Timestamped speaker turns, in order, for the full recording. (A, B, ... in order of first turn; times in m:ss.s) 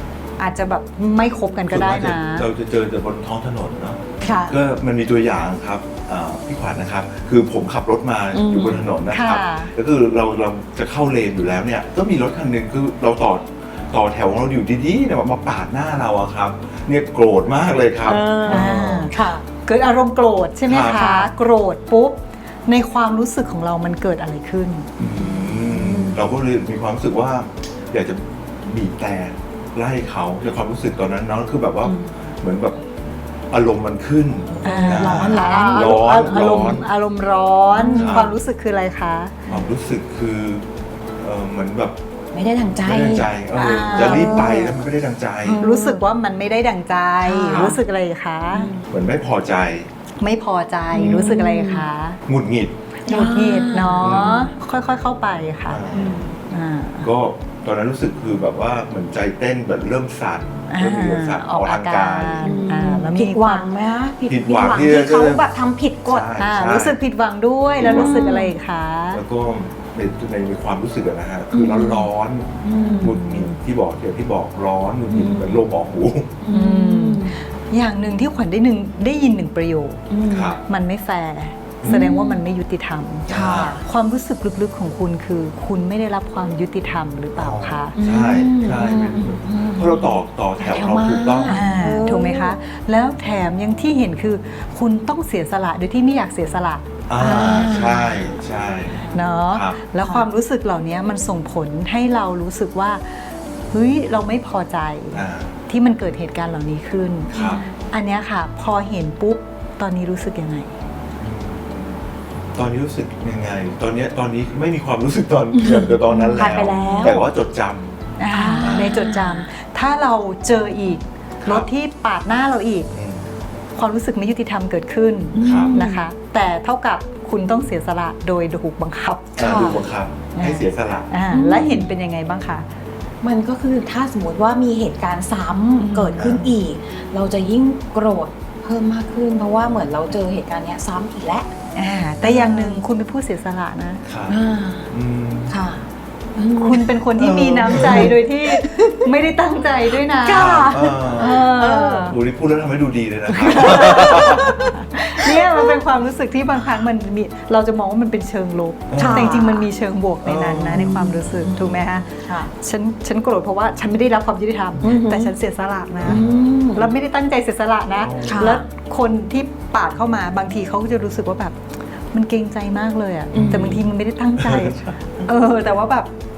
0:00.4-0:02.5 A
0:01.7-0:19.1 B
0:04.2-0:04.6 C
0:08.3-0:08.8 C
0:09.1-0:09.7 A
0:18.0-0:19.4 C
0:18.5-0:19.1 A
0:19.6-0:24.9 A
0:20.7-0:21.2 B
0:20.9-0:21.3 C
0:25.0-0:32.8 B
0:25.0-0:26.2 C
0:31.8-0:32.1 C
0:33.5-0:36.9 B
0:34.5-0:36.8 C
0:34.6-0:39.3 A
0:37.7-0:38.3 C
0:37.9-0:38.4 B
0:39.5-0:40.6 B
0:41.2-0:42.0 B
0:42.3-0:44.7 C
0:42.8-0:45.6 B
0:43.6-0:44.7 A
0:45.4-0:46.0 C
0:45.6-0:48.7 A
0:47.2-0:47.8 C
0:47.5-0:47.8 B
0:48.5-0:48.9 C
0:48.9-0:49.9 B
0:50.2-0:52.2 A
0:50.9-0:51.9 C
0:51.0-0:51.4 B
0:52.3-0:52.7 B
0:53.0-0:55.8 A
0:53.1-0:54.5 C
0:54.0-0:54.4 B
0:55.7-0:56.2 B
0:55.9-0:56.4 C
0:56.5-0:57.1 A
0:57.0-1:02.5 B
1:00.7-1:03.7 A
1:02.4-1:06.3 C
1:04.3-1:05.4 B
1:06.0-1:07.0 B
1:06.4-1:09.2 A
1:07.8-1:08.2 B
1:07.8-1:08.5 C
1:09.1-1:16.3 B
1:11.5-1:12.1 C
1:12.6-1:13.2 C
1:12.9-1:13.5 A
1:15.1-1:15.6 C
1:16.4-1:17.4 C
1:16.5-1:20.0 A
1:20.1-1:20.6 C
1:20.3-1:20.6 B
1:20.7-1:28.0 A
1:21.9-1:22.4 C
1:23.3-1:23.8 B
1:23.3-1:23.8 C
1:27.4-1:31.6 B
1:28.0-1:32.6 C
1:31.5-1:37.9 A
1:37.1-1:39.8 B
1:37.4-1:38.3 C
1:39.1-1:47.3 A
1:45.1-1:45.5 B
1:47.3-1:47.6 B
1:47.3-1:47.7 C
1:47.9-1:50.7 A
1:51.2-1:52.0 B
1:52.6-1:58.0 B
1:55.6-1:57.3 C
1:58.2-2:02.9 A
1:58.3-1:59.5 C
1:58.6-1:59.0 B
2:02.9-2:03.2 B
2:03.8-2:09.8 A
2:05.3-2:06.0 C
2:05.4-2:05.8 B
2:09.4-2:11.1 B
2:09.4-2:09.8 C
2:10.3-2:12.7 A
2:11.3-2:11.9 C
2:13.2-2:21.5 C
2:15.8-2:16.5 A
2:16.2-2:16.5 B
2:21.8-2:24.0 A
2:22.2-2:22.8 C
2:24.0-2:25.6 B
2:24.3-2:24.9 C
2:25.5-2:25.8 C
2:26.4-2:26.9 C
2:26.6-2:32.2 A
2:27.2-2:28.2 B
2:27.7-2:29.0 C
2:30.1-2:32.1 C
2:30.3-2:31.5 B
2:32.1-2:34.6 B
2:33.4-2:34.7 C
2:33.4-2:46.2 A
2:38.9-2:39.4 B
2:39.0-2:39.7 C
2:40.2-2:40.8 B
2:40.7-2:42.5 C
2:44.8-2:45.3 C
2:46.0-2:46.4 B
2:46.0-2:46.9 C
2:46.8-2:51.6 A
2:48.0-2:48.6 B
2:48.3-2:48.6 C
2:52.1-2:56.1 A
2:53.3-2:53.8 B
2:53.4-2:53.8 C
2:54.4-2:55.2 B